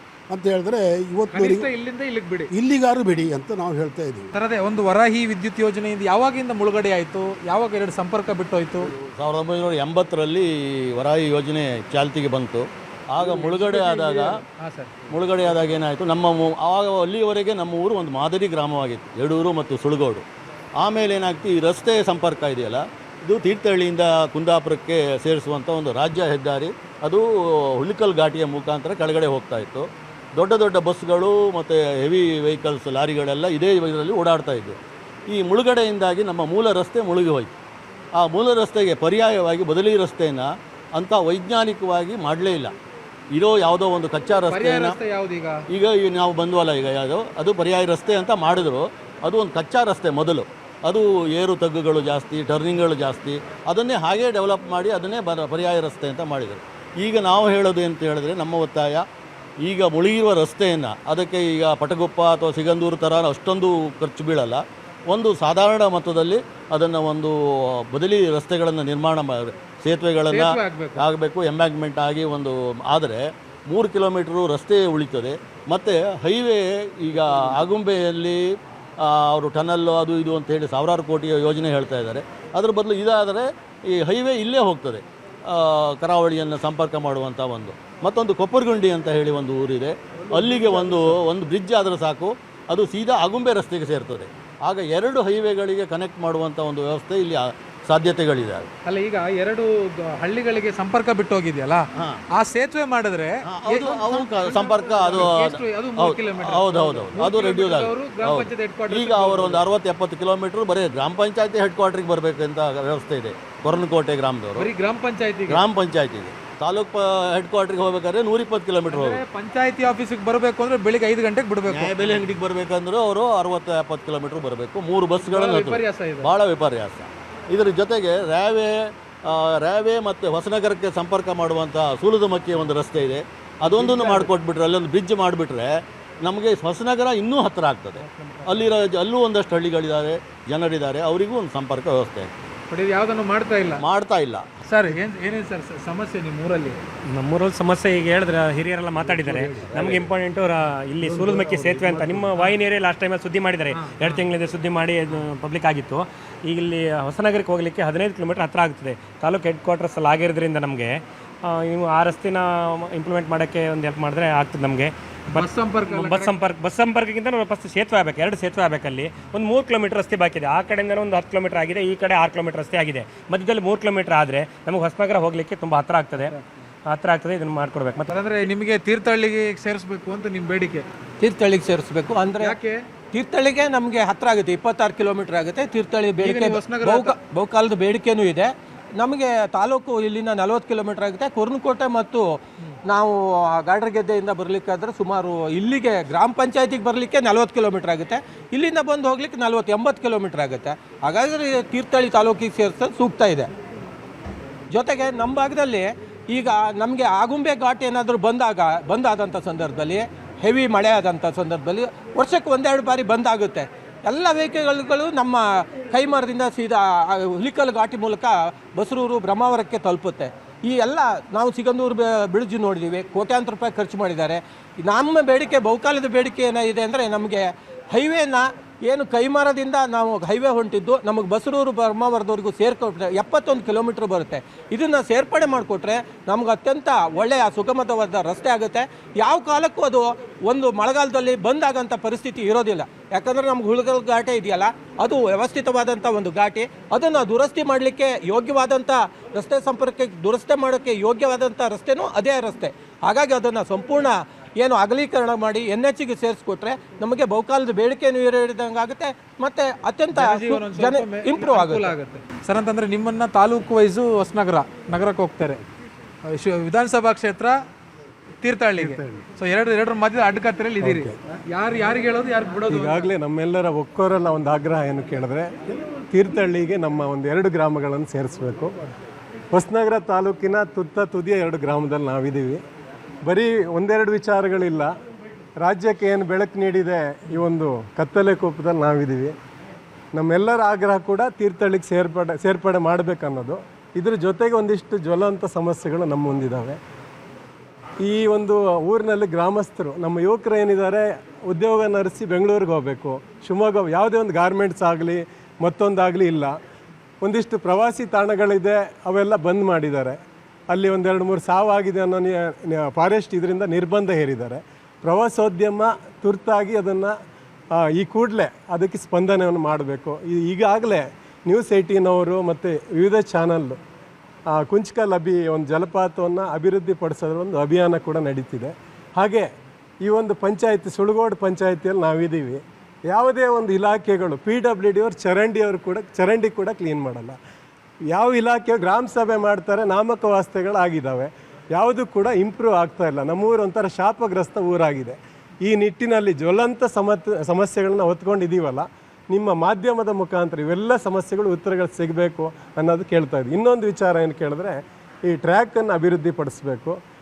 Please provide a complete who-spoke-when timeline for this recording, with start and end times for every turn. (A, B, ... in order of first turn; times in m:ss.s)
0:00.3-0:01.7 A
0:01.3-0:02.5 B
0:02.5-0:04.3 A
0:04.3-0:08.9 B
0:09.0-0:14.4 C
0:13.2-0:14.9 B
0:15.1-0:20.2 C
0:20.8-0:34.8 C
0:35.3-0:37.5 C
0:38.2-0:42.7 C
0:43.3-0:45.0 C
0:44.5-0:45.6 B
0:45.7-0:59.0 C
0:59.6-1:18.4 C
1:10.3-1:11.0 B
1:19.0-1:38.7 C
1:38.8-1:49.6 B
1:43.4-1:54.7 C
1:54.6-1:55.6 B
1:55.5-1:59.2 C
1:58.9-2:02.2 B
2:01.7-2:22.3 C
2:05.2-2:06.3 B
2:13.6-2:14.3 B
2:22.7-2:23.8 B
2:23.8-2:24.4 C
2:24.6-2:26.8 B
2:27.1-2:56.4 D
2:29.7-2:30.0 C
2:33.8-2:34.2 B
2:45.3-2:46.4 B
2:56.9-2:58.2 D
2:58.1-3:00.9 B
3:01.2-3:02.6 E
3:02.4-3:02.8 B
3:03.1-3:12.3 E
3:06.2-3:07.2 B
3:12.9-3:23.5 E
3:24.7-4:21.9 E
4:20.1-4:25.6 B
4:26.2-4:27.6 B
4:28.4-4:33.1 B
4:28.8-4:29.2 F
4:30.8-4:31.1 F
4:32.7-4:35.6 F
4:36.1-4:38.7 F
4:39.5-4:42.6 F
4:43.2-4:44.9 F
4:45.6-4:49.3 F
4:50.2-4:56.8 F
4:58.0-5:06.5 F
5:07.2-5:10.2 F
5:10.7-5:17.1 F
5:17.8-5:23.8 F
5:24.5-5:29.5 F
5:30.0-5:37.4 F
5:38.1-5:57.0 F